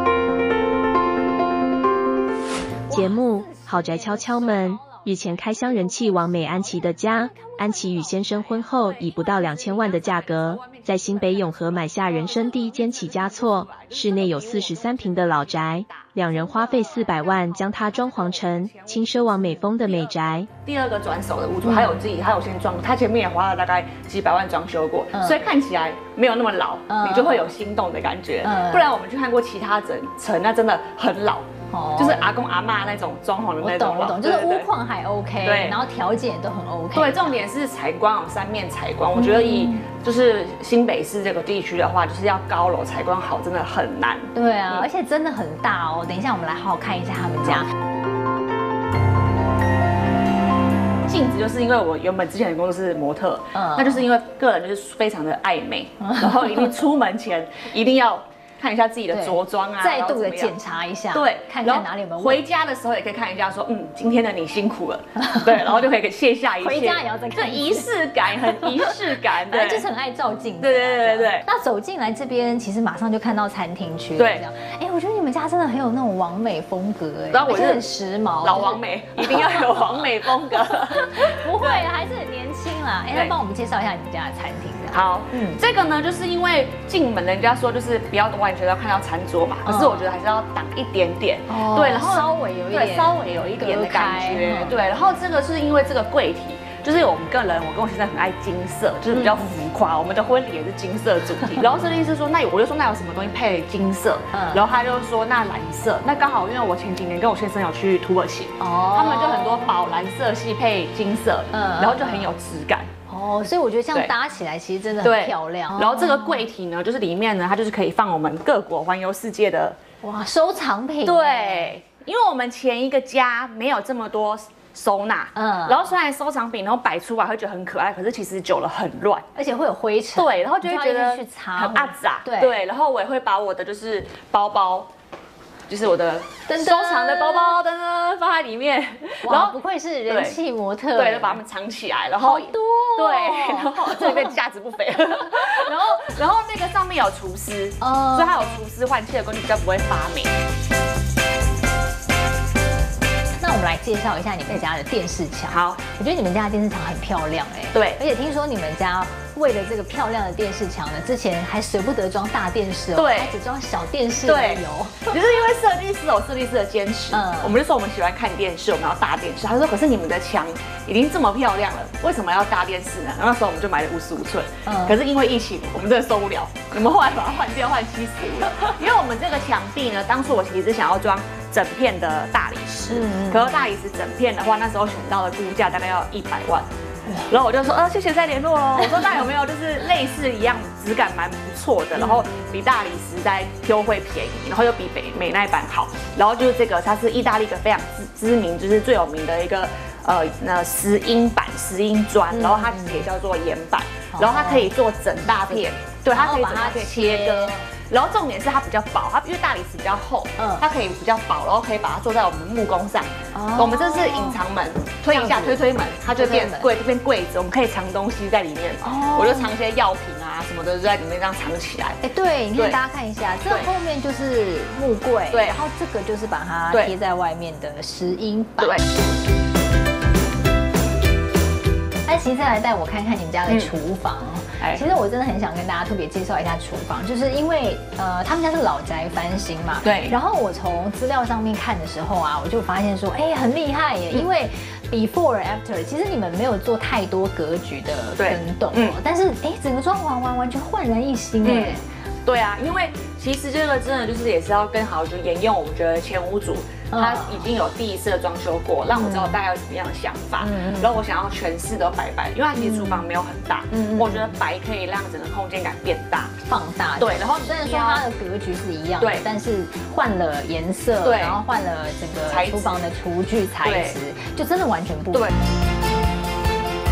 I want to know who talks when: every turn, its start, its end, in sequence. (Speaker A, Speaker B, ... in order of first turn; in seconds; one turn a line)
Speaker A: 2.9-6.3
Speaker B: 2.9-20.5
Speaker A: 7.0-8.6
Speaker C: 8.8-34.7
Speaker A: 21.6-22.0
Speaker A: 26.9-27.5
Speaker A: 28.4-28.9
Speaker A: 31.7-32.3
Speaker A: 33.6-37.4
Speaker C: 35.4-35.8
Speaker C: 36.9-44.9
Speaker A: 39.1-39.8
Speaker A: 44.4-47.7
Speaker C: 51.1-60.5
Speaker A: 53.5-54.0
Speaker A: 59.1-62.4
Speaker C: 61.1-69.9
Speaker A: 66.6-80.0
Speaker C: 70.6-71.5
Speaker C: 74.2-74.4
Speaker C: 77.3-77.9
Speaker C: 78.4-81.9
Speaker A: 80.6-85.6
Speaker C: 84.9-112.9
Speaker A: 89.7-90.1
Speaker A: 91.5-94.8
Speaker A: 104.3-104.6
Speaker A: 108.6-109.8
Speaker A: 111.5-112.3
Speaker A: 113.1-116.4
Speaker C: 115.0-119.8
Speaker A: 120.0-121.8
Speaker C: 121.0-129.2
Speaker A: 125.3-125.8
Speaker A: 129.3-132.6
Speaker C: 130.2-134.9
Speaker C: 135.7-139.6
Speaker A: 136.5-137.6
Speaker A: 139.2-141.4
Speaker C: 140.1-140.4
Speaker C: 140.9-150.3
Speaker A: 142.2-144.3
Speaker A: 147.8-148.3
Speaker A: 153.4-165.2
Speaker C: 155.5-155.8
Speaker C: 157.7-158.0
Speaker C: 163.0-163.3
Speaker C: 164.2-186.7
Speaker A: 167.1-167.6
Speaker A: 174.7-175.0
Speaker A: 182.9-183.5
Speaker C: 187.3-222.0
Speaker A: 191.9-192.3
Speaker A: 202.3-203.0
Speaker A: 204.1-204.7
Speaker A: 205.5-207.7
Speaker A: 210.4-210.6
Speaker A: 213.3-214.4
Speaker A: 215.1-216.7
Speaker A: 218.8-219.5
Speaker A: 222.0-228.8
Speaker C: 225.3-225.6
Speaker A: 232.1-251.8
Speaker C: 239.8-240.2
Speaker C: 248.2-249.0
Speaker C: 251.4-266.4
Speaker A: 256.9-257.5
Speaker A: 258.9-259.4
Speaker A: 260.4-261.0
Speaker A: 262.6-263.0
Speaker A: 263.7-264.3
Speaker A: 266.4-275.3
Speaker C: 267.0-268.1
Speaker C: 269.0-269.2
Speaker C: 271.0-271.4
Speaker C: 272.3-272.8
Speaker C: 273.6-274.0